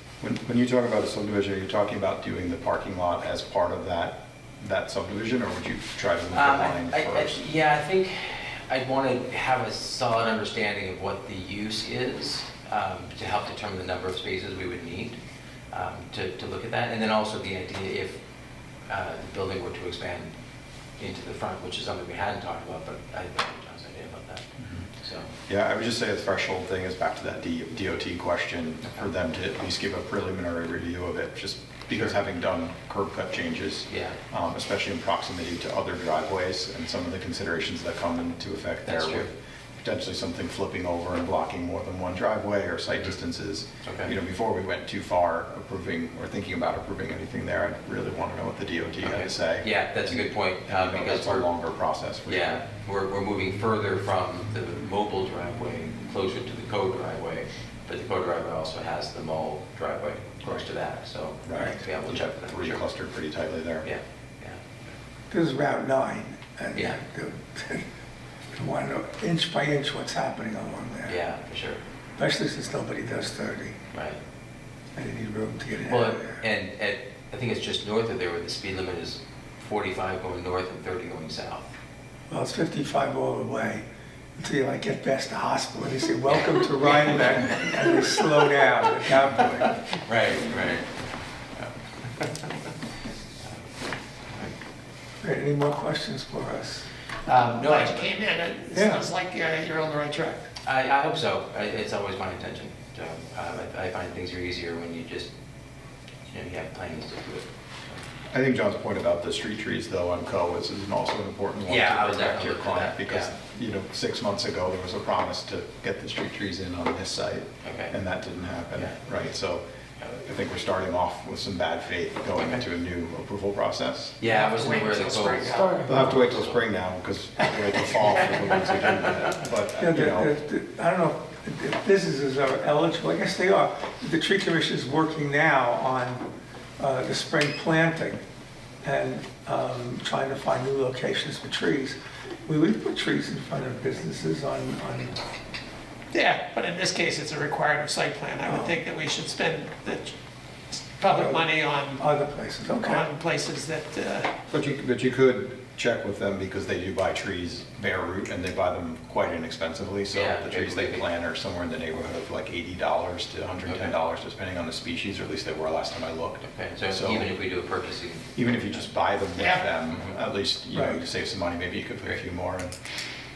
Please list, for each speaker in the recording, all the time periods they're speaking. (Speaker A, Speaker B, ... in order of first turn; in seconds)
Speaker A: 0.2-7.4, 25.5-52.6, 61.4-63.9, 108.3-119.6, 120.2-124.2, 125.8-130.3, 154.5-167.3, 168.3-172.7
Speaker B: 6.3-15.2, 15.7-18.2, 18.9-20.3, 21.0-24.5, 25.0-25.3, 33.9-34.2, 38.9-39.3, 43.8-44.1, 49.0-51.5, 52.2-62.8, 63.8-64.7, 66.7-67.0, 71.0-71.8, 73.9-74.2, 75.8-81.7, 86.4-87.8, 89.9-90.9, 91.6-92.3, 97.3-98.1, 100.7-105.3, 106.3-108.0, 111.6-113.3, 117.6-118.0, 118.7-119.1, 122.3-122.6, 124.2-126.6, 160.1-161.0, 163.7-163.9, 166.4-168.8
Speaker C: 65.3-67.8, 68.5-71.2, 72.2-73.8, 75.0-76.4, 82.3-83.8, 84.4-89.8, 95.2-96.9, 98.7-99.1, 125.5-126.0, 129.8-136.3, 136.8-138.2, 138.8-145.2, 148.4-148.8, 151.1-153.1, 170.7-171.0
Speaker D: 97.2-100.5, 124.3-125.9, 146.1-150.1, 151.0-152.0, 152.8-154.3, 169.3-169.6